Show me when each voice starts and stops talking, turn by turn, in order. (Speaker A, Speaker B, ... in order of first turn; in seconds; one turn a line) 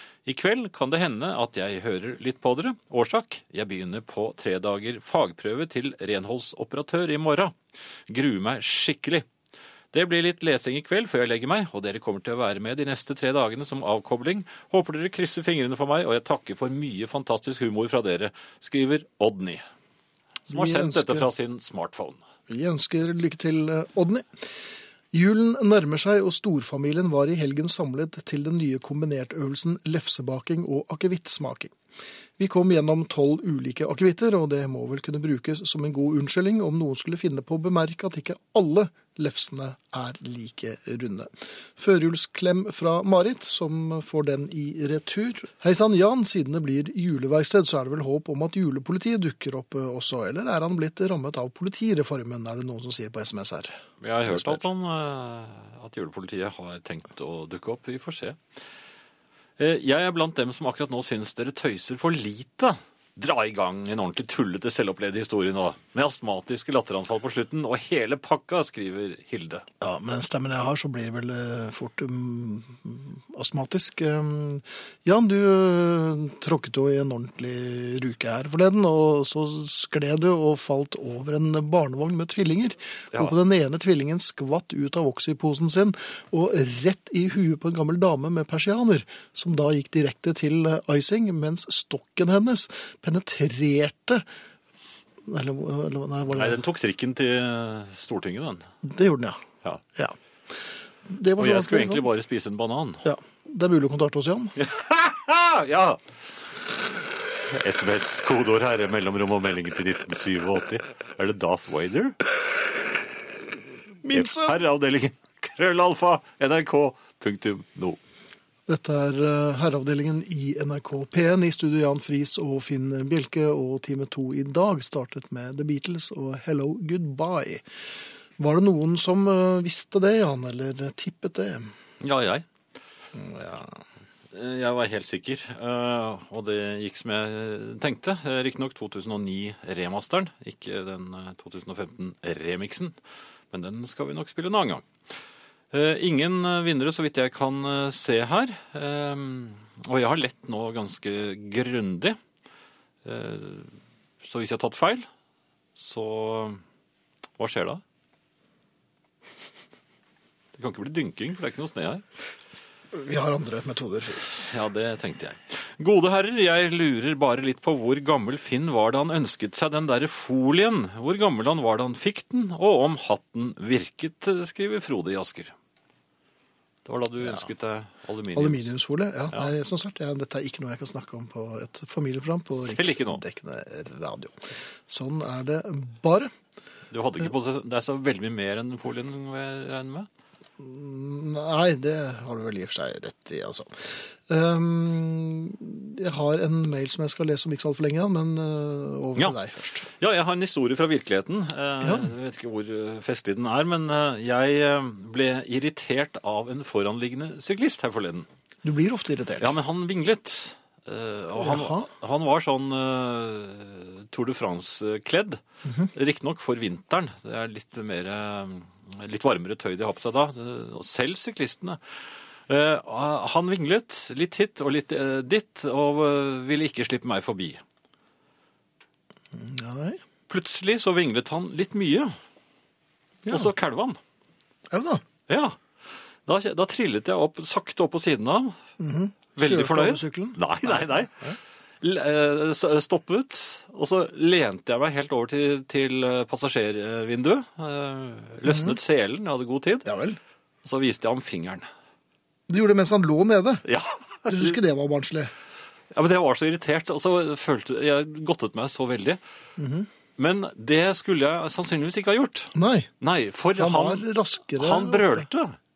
Speaker A: 0.3-7.6
Speaker A: 8.1-9.3
Speaker A: 9.9-19.6
Speaker B: 20.5-21.3
Speaker A: 20.5-22.2
Speaker B: 22.5-31.7
Speaker B: 32.4-54.6
Speaker A: 54.0-58.4
Speaker A: 59.6-69.7
Speaker B: 69.8-94.2
Speaker B: 95.3-96.6
Speaker A: 96.3-98.7
Speaker B: 98.8-99.4
Speaker B: 101.1-102.1
Speaker A: 101.4-103.0
Speaker B: 103.0-104.5
Speaker A: 104.6-106.0
Speaker A: 107.5-112.2
Speaker B: 114.0-114.6
Speaker A: 114.1-118.0
Speaker B: 118.7-127.6
Speaker B: 128.4-131.7
Speaker A: 132.0-132.5
Speaker B: 133.1-133.8
Speaker A: 134.3-143.0
Speaker A: 143.5-144.9
Speaker A: 145.7-152.2
Speaker A: 153.0-155.1
Speaker A: 155.8-156.6
Speaker A: 157.4-157.8
Speaker A: 160.6-162.0
Speaker B: 162.9-164.5
Speaker A: 164.5-175.6
Speaker A: 176.8-178.7
Speaker B: 178.3-186.3
Speaker A: 182.5-183.2
Speaker A: 186.9-190.1
Speaker B: 190.6-199.9
Speaker A: 199.9-208.3
Speaker B: 201.8-202.1
Speaker B: 208.6-209.5
Speaker A: 209.4-227.6
Speaker B: 211.4-211.9
Speaker B: 215.7-215.9
Speaker B: 229.3-230.0
Speaker A: 230.3-232.1
Speaker B: 233.2-233.5
Speaker A: 233.3-234.0
Speaker B: 234.7-235.0
Speaker A: 235.3-235.6
Speaker A: 236.3-238.6
Speaker B: 238.8-241.4
Speaker A: 239.4-241.2
Speaker A: 241.8-249.9
Speaker B: 248.4-248.8
Speaker B: 249.8-250.2
Speaker A: 250.6-251.7
Speaker B: 252.5-253.7
Speaker A: 253.7-254.6
Speaker B: 254.3-255.3
Speaker A: 255.9-259.2
Speaker B: 259.6-259.9
Speaker A: 260.2-265.6
Speaker B: 262.6-262.9
Speaker B: 263.6-265.3